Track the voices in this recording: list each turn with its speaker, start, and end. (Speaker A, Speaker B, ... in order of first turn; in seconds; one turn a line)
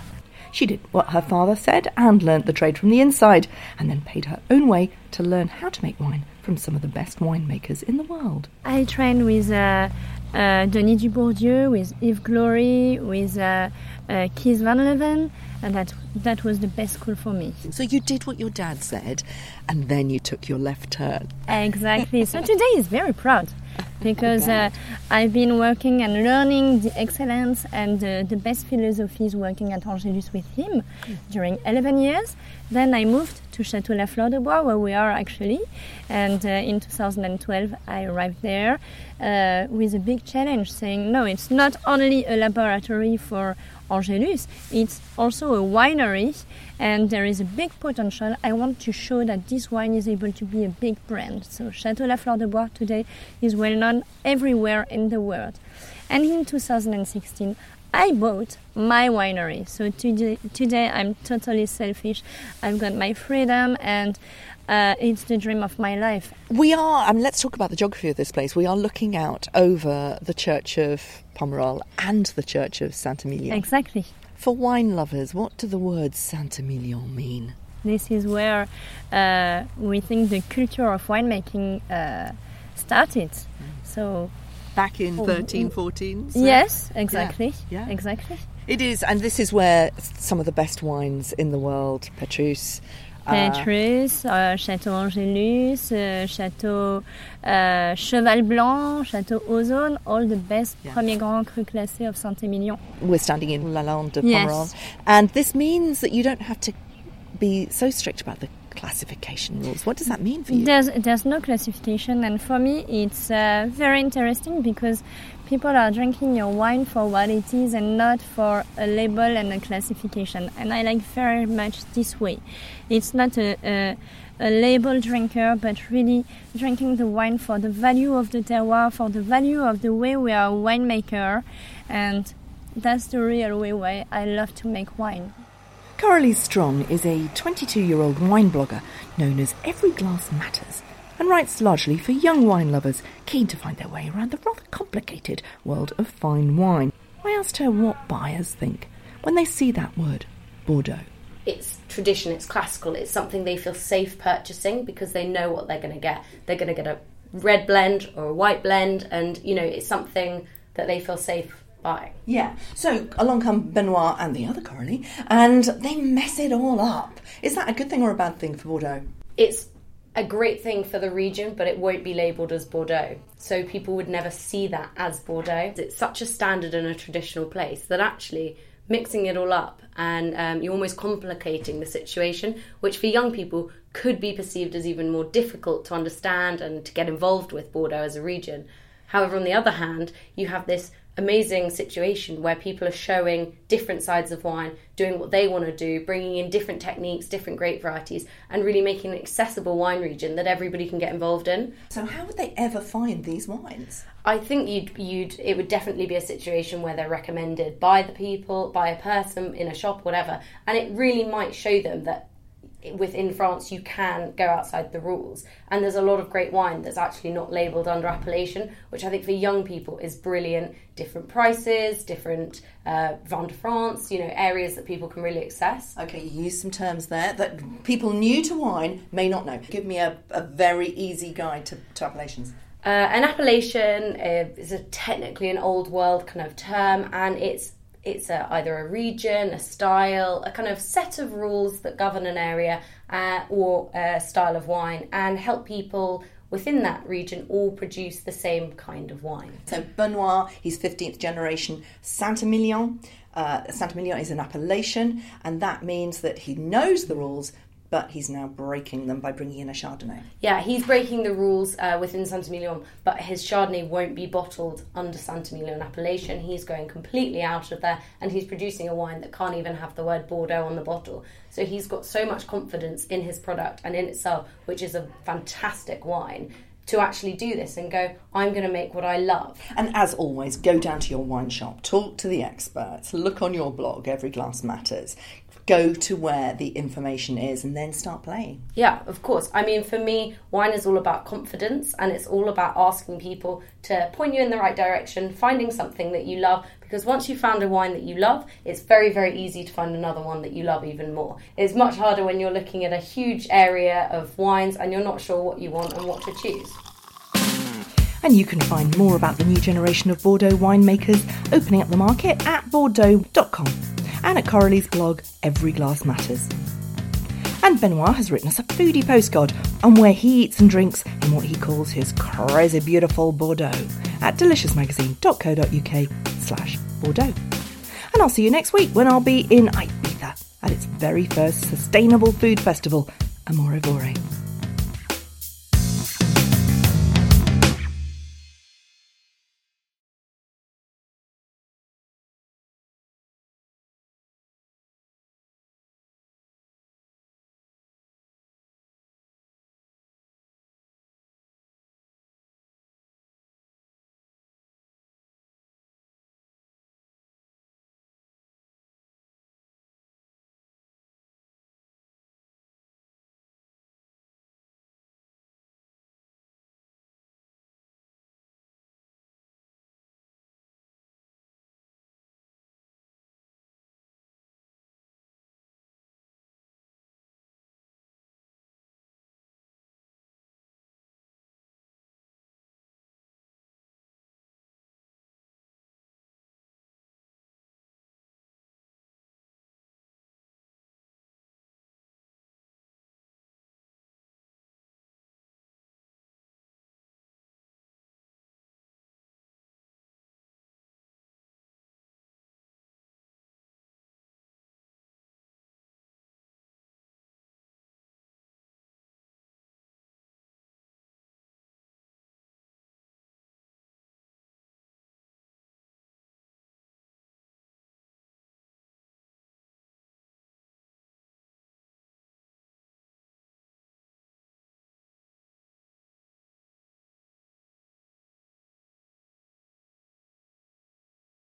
Speaker A: 0.5-8.5
Speaker B: 8.6-17.6
Speaker A: 17.7-21.3
Speaker B: 21.5-66.3
Speaker A: 66.5-73.7
Speaker B: 73.5-74.1
Speaker A: 74.4-77.5
Speaker B: 77.8-84.3
Speaker A: 84.7-87.9
Speaker B: 85.2-85.7
Speaker B: 86.3-88.4
Speaker A: 88.7-93.7
Speaker B: 93.3-102.8
Speaker A: 103.0-106.8
Speaker B: 104.2-104.7
Speaker A: 107.3-110.7
Speaker B: 110.5-135.3
Speaker A: 136.0-151.0
Speaker C: 151.4-162.1
Speaker A: 162.2-169.0
Speaker C: 169.4-201.7
Speaker A: 201.9-204.0
Speaker C: 204.2-212.3
Speaker C: 212.8-225.9
Speaker A: 225.9-232.5
Speaker C: 232.8-249.6
Speaker A: 249.7-260.3
Speaker C: 260.4-279.6
Speaker A: 279.7-288.6
Speaker C: 288.7-306.8
Speaker A: 308.2-316.5
Speaker A: 317.6-327.4
Speaker A: 328.1-334.2